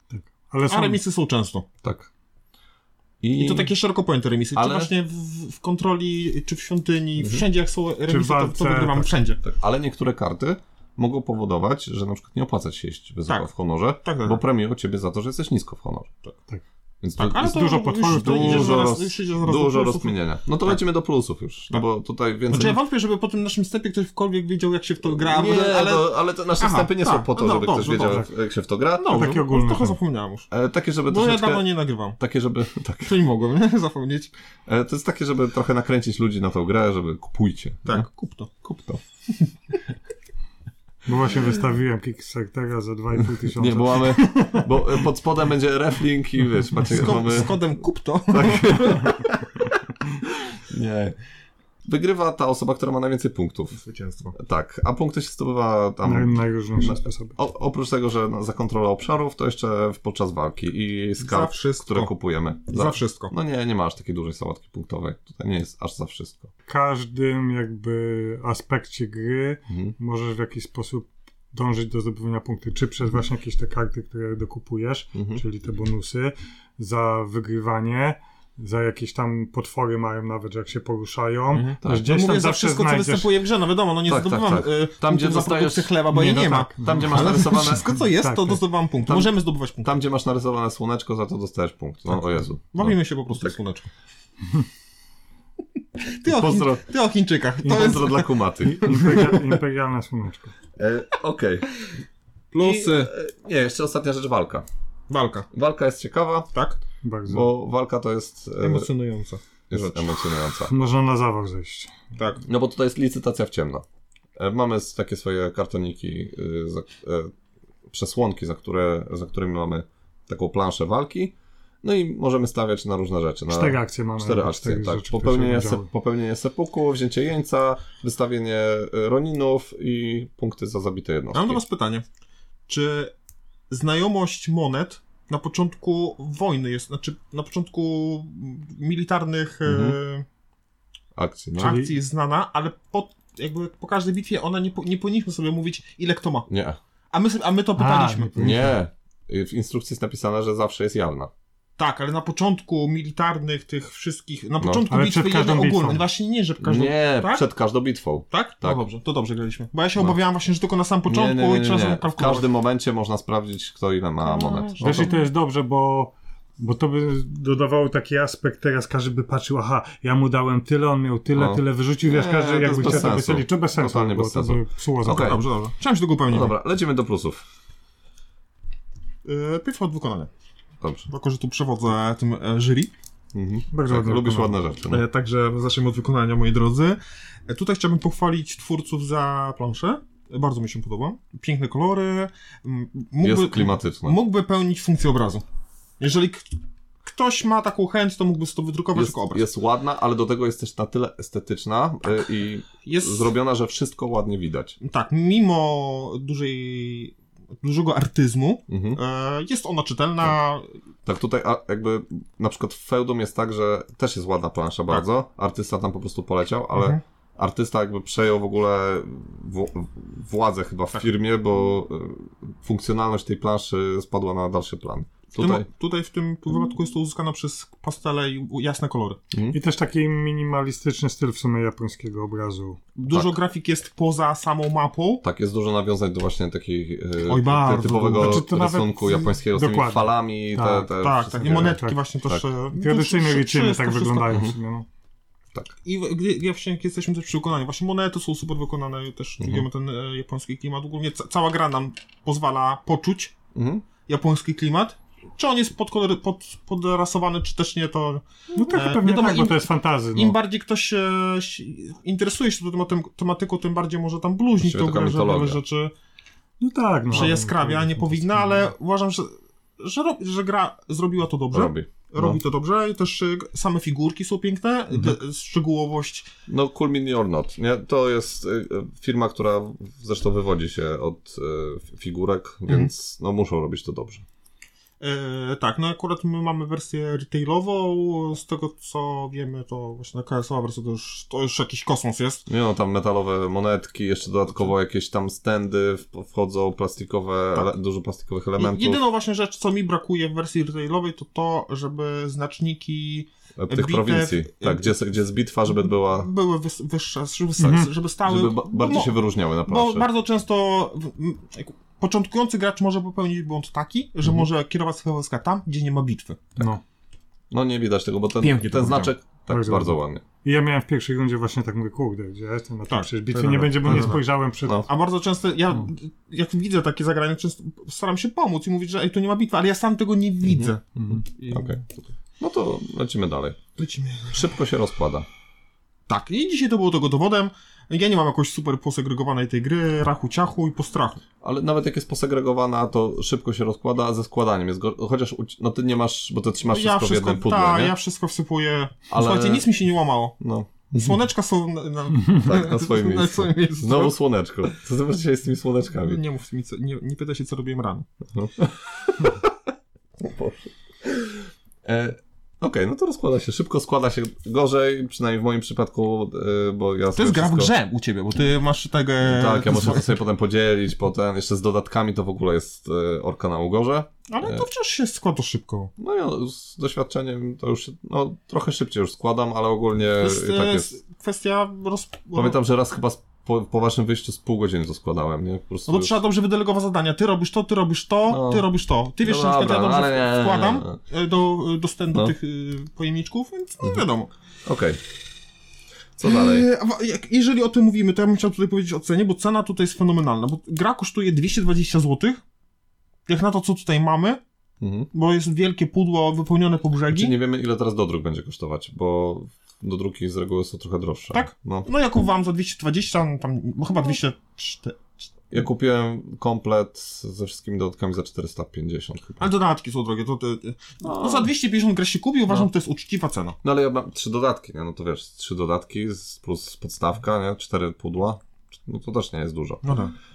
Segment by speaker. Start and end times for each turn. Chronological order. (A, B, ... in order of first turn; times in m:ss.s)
0:00.1-0:01.0 A
0:00.7-0:01.6 B
0:01.8-0:02.1 C
0:03.2-0:03.7 C
0:03.4-0:09.4 B
0:04.5-0:04.9 C
0:07.2-0:07.4 C
0:08.1-0:09.1 A
0:09.4-0:16.1 C
0:14.0-0:14.4 B
0:17.0-0:22.8 C
0:17.2-0:20.8 B
0:17.3-0:18.9 A
0:22.5-0:28.3 B
0:25.0-0:29.3 C
0:29.0-0:30.5 B
0:29.1-0:30.0 A
0:30.5-0:31.6 C
0:31.1-0:32.2 B
0:32.2-0:33.2 C
0:33.0-0:34.3 B
0:34.7-0:38.0 C
0:37.8-0:38.5 B
0:38.6-0:39.0 C
0:41.0-0:45.0 A
0:43.2-0:47.6 C
0:46.9-0:49.2 B
0:48.3-0:49.8 C
0:50.5-0:51.2 C
0:51.8-0:53.8 C
0:53.8-0:54.4 B
0:54.3-1:06.5 C
0:56.0-0:57.4 A
1:01.2-1:02.1 B
1:02.7-1:03.3 B
1:06.7-1:23.3 A
1:09.7-1:09.9 C
1:15.1-1:15.4 C
1:21.5-1:29.9 B
1:21.8-1:22.1 C
1:24.1-1:26.0 C
1:26.1-1:28.6 A
1:26.8-1:27.9 C
1:29.0-1:33.6 C
1:32.7-1:33.8 B
1:36.1-1:39.5 B
1:36.3-1:36.8 C
1:37.6-1:38.9 C
1:37.6-1:38.0 A
1:38.6-1:40.5 A
1:40.8-1:41.7 C
1:42.5-1:43.1 B
1:42.6-1:44.6 C
1:45.1-1:45.5 B
1:45.5-1:46.5 C
1:46.5-1:46.8 B
1:47.0-1:47.5 A
1:47.3-1:48.9 C
1:48.6-1:50.1 B
1:49.7-1:50.7 C
1:50.6-1:51.9 A
1:52.1-1:52.4 B
1:52.4-1:53.8 C
1:54.4-1:57.3 C
1:57.9-2:11.6 C
2:03.5-2:05.9 A
2:11.3-2:12.0 B
2:12.7-2:13.1 B
2:13.7-2:20.2 B
2:19.6-2:20.0 C
2:21.1-2:21.8 C
2:21.6-2:21.9 A
2:21.6-2:26.5 B
2:26.5-2:26.8 C
2:27.1-2:28.6 B
2:27.8-2:28.7 A
2:28.4-2:31.3 C
2:31.8-2:37.4 B
2:34.6-2:34.8 C
2:34.9-2:36.0 A
2:36.6-2:38.8 C
2:38.3-2:42.5 B
2:41.1-2:45.1 C
2:44.2-2:45.2 B
2:44.8-2:55.4 A
2:51.3-2:55.4 C
2:55.1-2:56.5 B
2:56.3-2:57.4 C
2:59.2-3:00.3 B
3:00.8-3:01.1 C
3:01.1-3:02.9 B
3:03.3-3:05.0 C
3:03.7-3:04.6 A
3:04.9-3:15.4 B
3:13.2-3:14.2 C
3:16.0-3:16.5 B
3:17.0-3:19.4 B
3:18.9-3:24.8 C
3:22.8-3:23.3 B
3:24.8-3:30.7 B
3:28.7-3:29.0 C
3:31.0-3:45.7 C
3:36.7-3:37.0 B
3:45.3-3:49.2 B
3:49.3-3:49.6 C
3:49.5-3:52.8 A
3:53.0-3:55.2 B
3:53.1-3:53.3 C
3:55.2-4:02.4 C
3:57.2-3:58.5 B
3:58.2-4:02.0 A
4:01.0-4:04.4 B
4:02.7-4:04.8 A
4:04.3-4:04.5 C
4:05.8-4:13.3 B
4:09.4-4:09.6 C
4:13.5-4:13.8 C
4:14.1-4:25.9 B
4:18.5-4:20.4 A
4:24.6-4:25.6 C
4:26.6-4:28.7 A
4:27.1-4:36.3 B
4:31.5-4:32.4 C
4:36.5-4:44.2 C
4:45.0-4:52.4 B
4:52.5-4:59.0 C
4:58.6-5:05.0 B
5:03.6-5:06.3 C
5:05.8-5:16.5 B
5:07.6-5:07.9 A
5:08.2-5:10.1 C
5:17.5-5:20.2 C
5:18.4-5:19.1 B
5:19.5-5:24.9 A
5:22.9-5:24.2 B
5:23.8-5:24.9 C
5:24.8-5:31.9 B
5:30.4-5:31.8 C
5:32.4-5:33.6 C
5:33.8-5:34.5 B
5:34.3-5:35.3 C
5:36.1-5:41.2 B
5:41.4-5:47.9 C
5:46.7-5:50.4 B
5:49.1-5:49.7 C
5:50.4-5:51.2 C
5:50.9-5:54.1 B
5:52.3-5:56.2 C
5:56.0-5:58.1 B
5:58.3-5:59.5 C
6:00.2-6:07.7 C
6:07.1-6:10.2 B
6:09.2-6:14.7 C
6:14.3-6:15.9 B
6:16.0-6:20.9 C
6:20.2-6:22.6 B
6:22.3-6:26.2 C
6:25.9-6:34.3 B
6:28.3-6:28.6 C
6:29.2-6:31.0 C
6:34.6-6:35.0 C
6:36.2-6:36.7 C
6:36.2-6:42.4 B
6:43.3-6:44.4 B
6:44.8-6:45.1 C
6:45.1-6:47.3 B
6:47.1-6:51.9 C
6:51.3-6:55.2 B
6:55.5-6:59.5 C
6:59.4-7:03.6 B
7:01.0-7:01.5 C
7:03.6-7:10.0 C
7:09.8-7:10.1 B